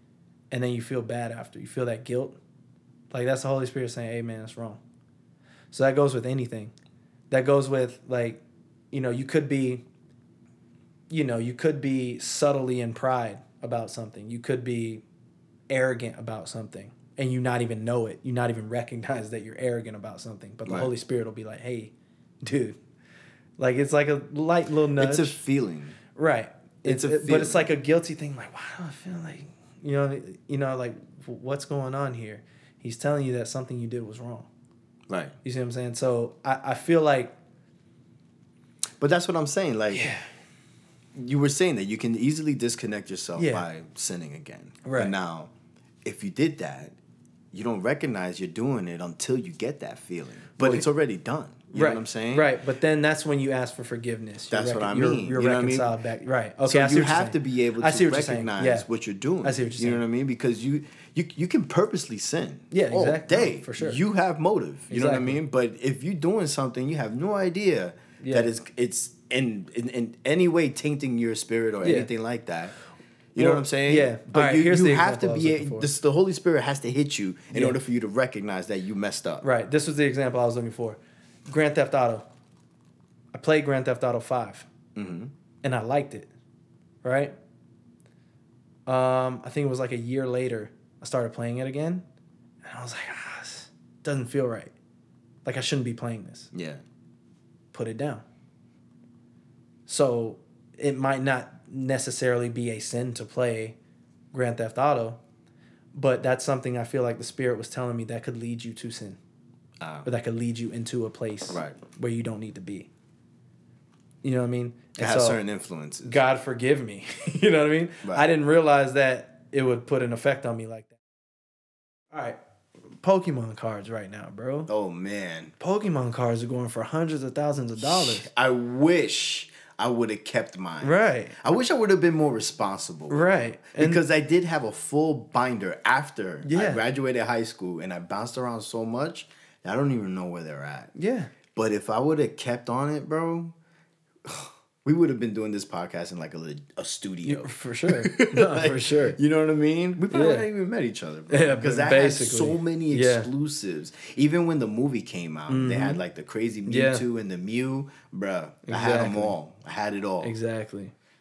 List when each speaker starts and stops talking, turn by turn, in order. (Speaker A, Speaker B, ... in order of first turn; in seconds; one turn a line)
Speaker A: 0.5-2.4
Speaker A: 3.1-4.8
Speaker A: 5.7-6.7
Speaker A: 7.3-9.8
Speaker A: 11.1-15.0
Speaker A: 15.7-22.8
Speaker B: 20.6-20.9
Speaker A: 23.6-25.4
Speaker B: 25.0-26.0
Speaker A: 26.1-34.5
Speaker B: 26.8-27.7
Speaker B: 35.1-35.4
Speaker A: 35.4-37.3
Speaker B: 39.0-40.1
Speaker A: 39.9-40.2
Speaker B: 41.1-45.5
Speaker A: 43.4-43.7
Speaker A: 44.8-45.1
Speaker B: 46.0-47.0
Speaker B: 47.5-52.5
Speaker A: 50.6-50.9
Speaker A: 51.7-58.9
Speaker B: 54.5-55.9
Speaker B: 56.7-72.7
Speaker A: 59.4-60.0
Speaker A: 62.7-64.0
Speaker A: 64.9-65.4
Speaker A: 68.2-68.5
Speaker A: 71.8-72.1
Speaker B: 73.3-79.4
Speaker A: 73.4-75.9
Speaker A: 77.5-77.8
Speaker A: 79.4-82.3
Speaker A: 83.3-84.7
Speaker B: 84.9-85.3
Speaker A: 85.6-86.3
Speaker A: 87.0-87.3
Speaker A: 88.9-92.0
Speaker A: 92.6-94.7
Speaker A: 95.4-96.5
Speaker B: 96.5-96.8
Speaker A: 97.7-98.2
Speaker A: 99.9-103.8
Speaker A: 104.3-105.2
Speaker A: 105.9-109.2
Speaker B: 109.8-110.1
Speaker A: 110.0-112.9
Speaker B: 111.5-111.8
Speaker A: 114.2-115.4
Speaker B: 115.0-116.2
Speaker A: 116.0-121.0
Speaker B: 118.0-118.3
Speaker A: 122.1-122.4
Speaker A: 123.0-124.7
Speaker B: 124.7-125.5
Speaker A: 125.6-128.3
Speaker B: 127.8-140.9
Speaker A: 130.8-131.4
Speaker A: 133.1-134.0
Speaker A: 136.4-136.8
Speaker A: 140.9-141.3
Speaker B: 141.5-143.5
Speaker B: 144.2-160.3
Speaker A: 147.2-149.2
Speaker A: 150.1-150.5
Speaker A: 151.3-153.3
Speaker A: 155.5-156.0
Speaker A: 156.7-157.0
Speaker A: 158.7-159.3
Speaker A: 160.2-160.9